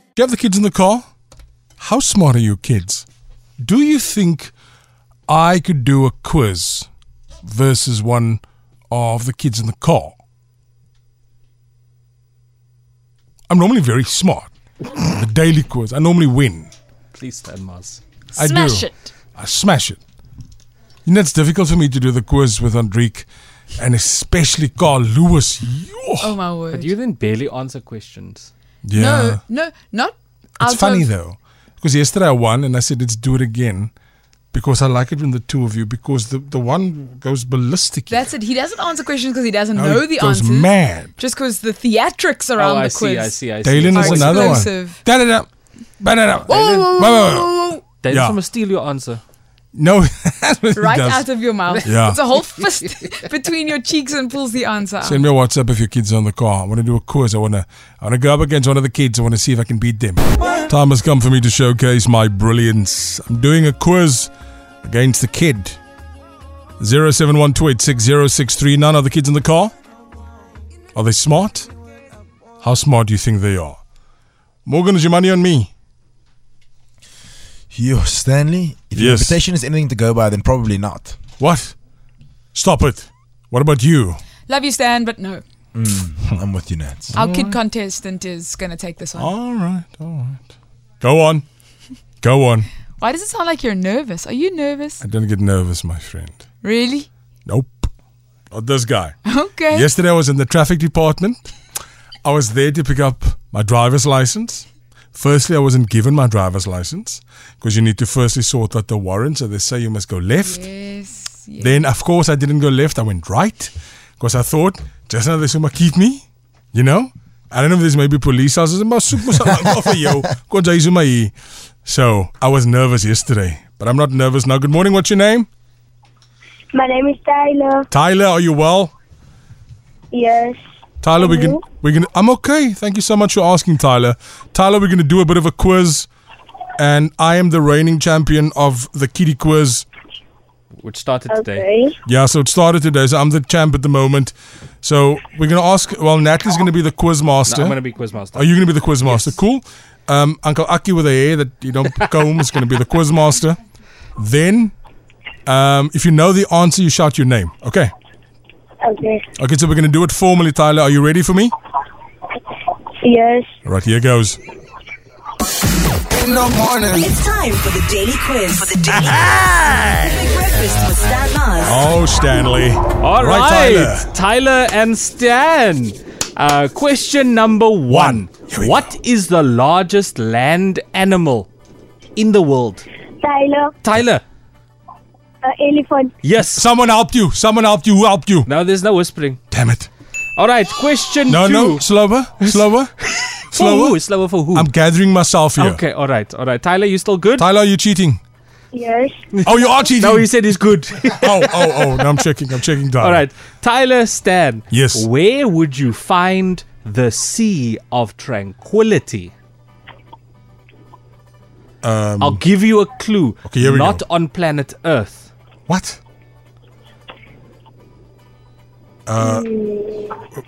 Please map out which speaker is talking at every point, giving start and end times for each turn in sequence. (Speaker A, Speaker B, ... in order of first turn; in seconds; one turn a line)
Speaker A: 0.2-1.1
Speaker A: 1.8-3.0
Speaker A: 3.6-4.5
Speaker A: 5.3-6.9
Speaker A: 7.4-10.2
Speaker A: 13.5-16.7
Speaker B: 17.1-18.0
Speaker A: 18.4-20.0
Speaker C: 18.4-18.9
Speaker A: 21.1-26.3
Speaker D: 26.2-26.9
Speaker B: 26.7-28.5
Speaker A: 28.8-29.4
Speaker D: 28.9-31.1
Speaker A: 30.6-33.9
Speaker A: 34.5-38.3
Speaker D: 38.1-43.4
Speaker A: 39.8-41.1
Speaker B: 42.6-44.7
Speaker A: 43.6-45.5
Speaker D: 43.9-45.0
Speaker A: 46.0-47.5
Speaker D: 46.5-47.8
Speaker B: 48.0-49.2
Speaker A: 48.1-48.4
Speaker A: 49.7-51.3
Speaker D: 50.7-55.3
Speaker A: 51.8-52.2
Speaker A: 55.0-65.8
Speaker A: 66.8-69.7
Speaker A: 70.9-71.7
Speaker A: 72.6-73.8
Speaker A: 74.7-75.7
Speaker E: 77.7-81.2
Speaker A: 78.9-79.4
Speaker A: 81.4-81.7
Speaker A: 82.5-84.2
Speaker D: 84.5-85.4
Speaker E: 85.7-87.2
Speaker A: 87.1-87.6
Speaker D: 87.1-89.3
Speaker A: 89.2-90.4
Speaker A: 91.0-91.4
Speaker A: 92.2-92.7
Speaker D: 93.0-95.0
Speaker A: 95.0-96.4
Speaker D: 96.6-97.1
Speaker A: 97.5-97.9
Speaker A: 98.5-99.2
Speaker D: 99.2-99.9
Speaker A: 99.7-101.5
Speaker A: 102.2-110.7
Speaker D: 110.4-111.8
Speaker A: 111.6-121.3
Speaker A: 121.8-125.5
Speaker F: 126.7-127.9
Speaker A: 127.9-128.9
Speaker F: 130.1-130.6
Speaker A: 131.0-136.1
Speaker F: 131.2-131.7
Speaker A: 136.8-139.8
Speaker B: 140.8-141.7
Speaker F: 141.3-141.9
Speaker A: 142.1-147.8
Speaker B: 147.4-149.3
Speaker A: 148.3-153.6
Speaker A: 154.2-154.7
Speaker A: 155.4-157.9
Speaker F: 158.8-159.2
Speaker A: 159.4-161.5
Speaker F: 163.0-163.5
Speaker A: 163.6-164.4
Speaker A: 166.1-167.1
Speaker C: 167.0-169.3
Speaker A: 168.9-170.2
Speaker C: 170.0-171.7
Speaker A: 171.6-174.1
Speaker B: 173.0-181.5
Speaker A: 177.9-178.8
Speaker B: 182.2-182.8
Speaker F: 183.2-183.7
Speaker B: 183.8-184.2
Speaker F: 185.4-186.1
Speaker B: 186.2-186.7
Speaker A: 186.5-188.5
Speaker B: 188.4-189.4
Speaker A: 189.5-189.9
Speaker B: 190.3-191.9
Speaker A: 191.3-192.9
Speaker B: 192.4-194.7
Speaker A: 193.5-194.0
Speaker A: 194.5-195.8
Speaker B: 195.6-197.4
Speaker A: 197.4-198.2
Speaker F: 198.7-199.1
Speaker B: 199.3-202.2
Speaker A: 199.4-200.3
Speaker A: 201.2-203.2
Speaker B: 203.0-209.3
Speaker A: 204.7-205.1
Speaker A: 211.8-212.4
Speaker B: 212.2-215.3
Speaker A: 213.4-214.0
Speaker A: 215.7-216.0
Speaker A: 219.1-219.4
Speaker F: 219.2-220.2